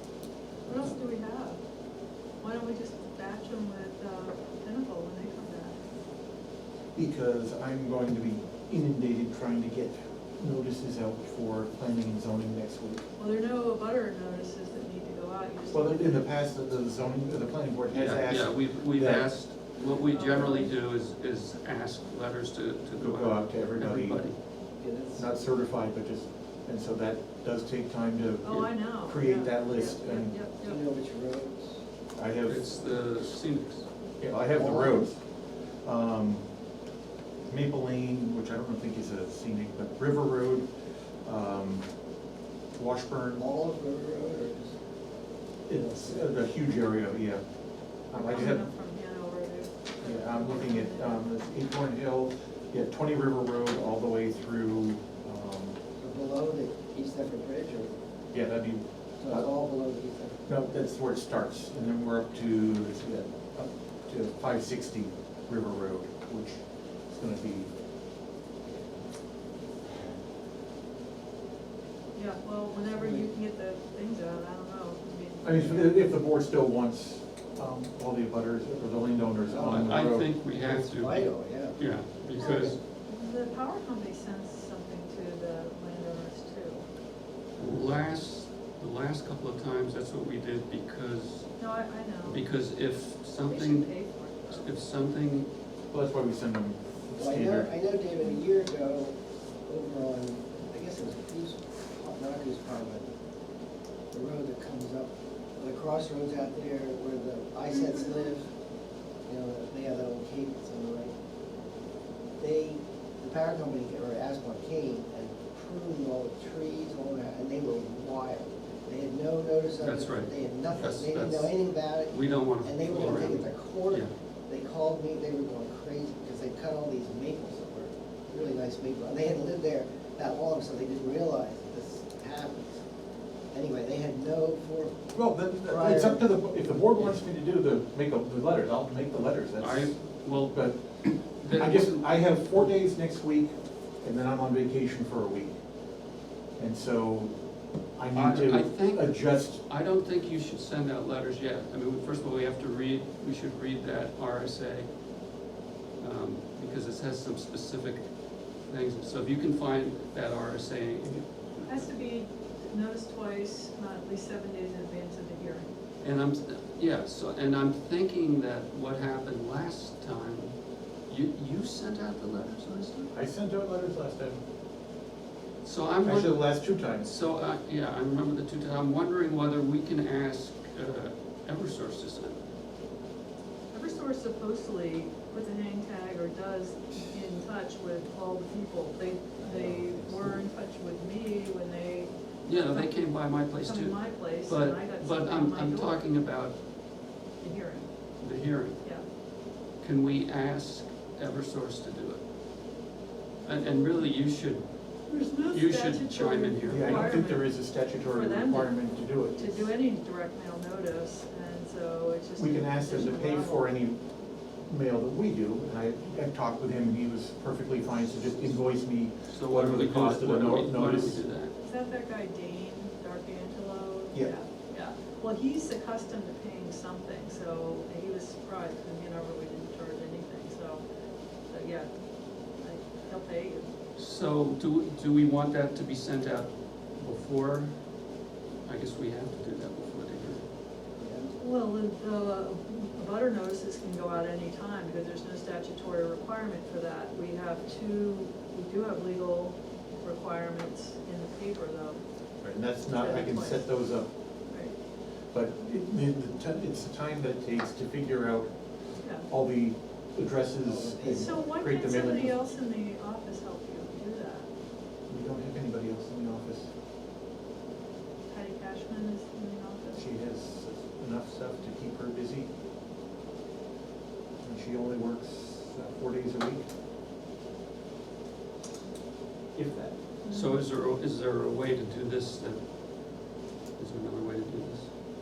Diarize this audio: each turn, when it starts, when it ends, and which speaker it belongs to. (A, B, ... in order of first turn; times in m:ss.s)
0:00.7-0:01.6 A
0:02.4-0:05.8 A
0:07.0-0:13.0 B
0:13.2-0:16.3 A
0:15.7-0:19.3 B
0:17.9-0:24.4 C
0:20.1-0:20.7 A
0:23.0-0:24.3 B
0:24.8-0:25.3 D
0:25.2-0:30.4 B
0:28.4-0:30.8 A
0:30.6-0:31.8 D
0:32.2-0:32.6 B
0:32.5-0:33.9 C
0:34.2-0:35.2 B
0:34.5-0:35.0 D
0:35.8-0:36.4 B
0:37.5-0:40.7 B
0:41.2-0:41.9 B
0:42.8-0:43.4 B
0:43.4-0:44.7 D
0:45.7-0:47.4 B
0:45.7-0:46.4 D
0:48.1-0:48.7 B
0:48.1-0:51.3 A
0:50.0-0:55.8 B
0:56.0-0:57.9 D
0:58.3-0:59.5 B
0:59.2-1:00.4 D
1:00.5-1:07.7 B
1:12.2-1:15.9 A
1:12.8-1:13.3 D
1:15.4-1:20.3 B
1:19.5-1:21.8 D
1:19.6-1:22.8 C
1:22.4-1:22.8 D
1:22.4-1:26.8 A
1:27.6-1:31.5 C
1:31.6-1:32.4 A
1:32.2-1:34.0 C
1:33.5-1:34.7 A
1:34.5-1:35.5 C
1:35.9-1:37.7 B
1:37.2-1:39.2 D
1:39.7-1:43.1 D
1:44.1-1:48.5 D
1:47.7-1:48.3 A
1:49.3-1:51.1 D
1:52.4-2:12.8 D
1:59.8-2:04.1 C
2:13.5-2:16.3 D
2:15.1-2:25.6 B
2:19.6-2:20.8 C
2:21.4-2:22.5 C
2:26.6-2:27.3 B
2:28.0-2:29.6 B
2:28.1-2:34.9 C
2:36.0-2:38.1 C
2:38.7-2:41.8 C
2:41.7-2:45.7 A
2:46.0-2:50.6 C
2:51.1-2:53.1 C
2:53.1-2:54.4 B
2:55.6-3:02.4 C
2:56.0-2:57.2 B
3:03.7-3:16.0 A
3:09.4-3:10.2 D
3:12.4-3:16.6 C
3:17.4-3:17.9 A
3:18.2-3:18.8 C
3:19.8-3:22.2 C
3:23.4-3:24.0 A
3:23.4-3:24.7 C
3:25.1-3:33.7 A
3:25.5-3:27.2 C
3:26.7-3:29.7 B
3:32.4-3:34.0 B
3:34.7-3:41.2 B
3:39.3-3:41.5 C
3:41.6-3:50.8 A
3:51.5-3:51.9 A
3:52.5-3:53.7 A
3:54.0-3:57.8 C
3:58.6-4:00.5 C
4:01.0-4:01.4 D
4:01.4-4:12.0 A
4:12.4-4:14.1 B
4:12.9-4:13.7 A
4:14.5-4:14.8 A
4:15.3-4:18.5 B
4:19.0-4:19.3 A
4:19.3-4:22.4 B
4:20.6-4:21.4 D
4:21.2-4:24.5 A
4:25.1-4:26.7 B
4:28.3-4:30.1 A
4:30.0-4:32.5 B
4:34.4-4:36.7 B
4:39.6-4:39.9 B
4:40.3-4:40.6 A
4:40.3-4:42.6 C
4:43.8-4:44.9 C